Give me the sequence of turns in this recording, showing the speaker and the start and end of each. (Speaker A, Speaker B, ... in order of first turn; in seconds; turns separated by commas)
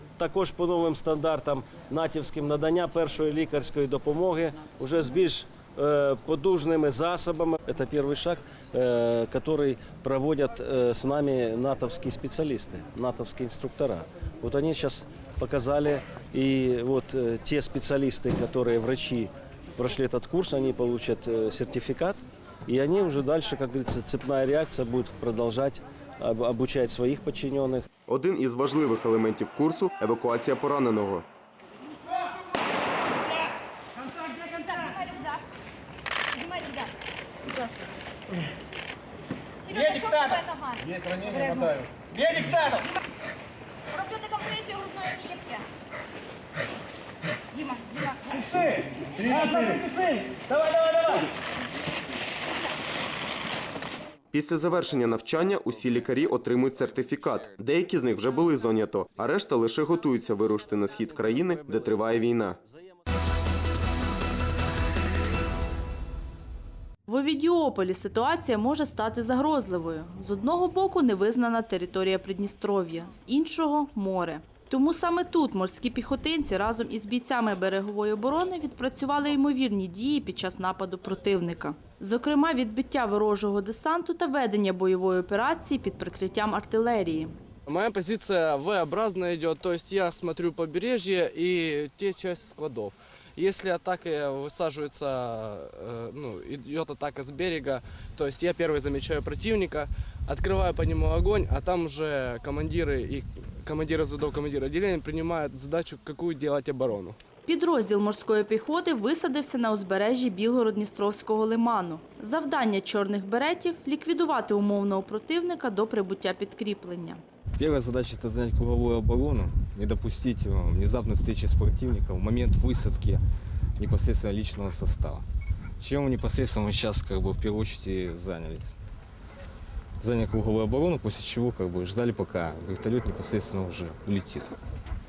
Speaker A: 0.2-27.9, Speaker B: 28.1-31.2, Speaker C: 34.9-35.3, Speaker C: 39.6-40.8, Speaker C: 44.0-45.6, Speaker C: 49.3-49.6, Speaker B: 54.3-62.6, Speaker A: 61.0-62.6, Speaker D: 67.1-87.3, Speaker E: 87.7-107.2, Speaker D: 107.5-117.2, Speaker F: 117.6-123.2, Speaker F: 123.8-125.2, Speaker F: 125.8-128.8, Speaker F: 130.0-134.6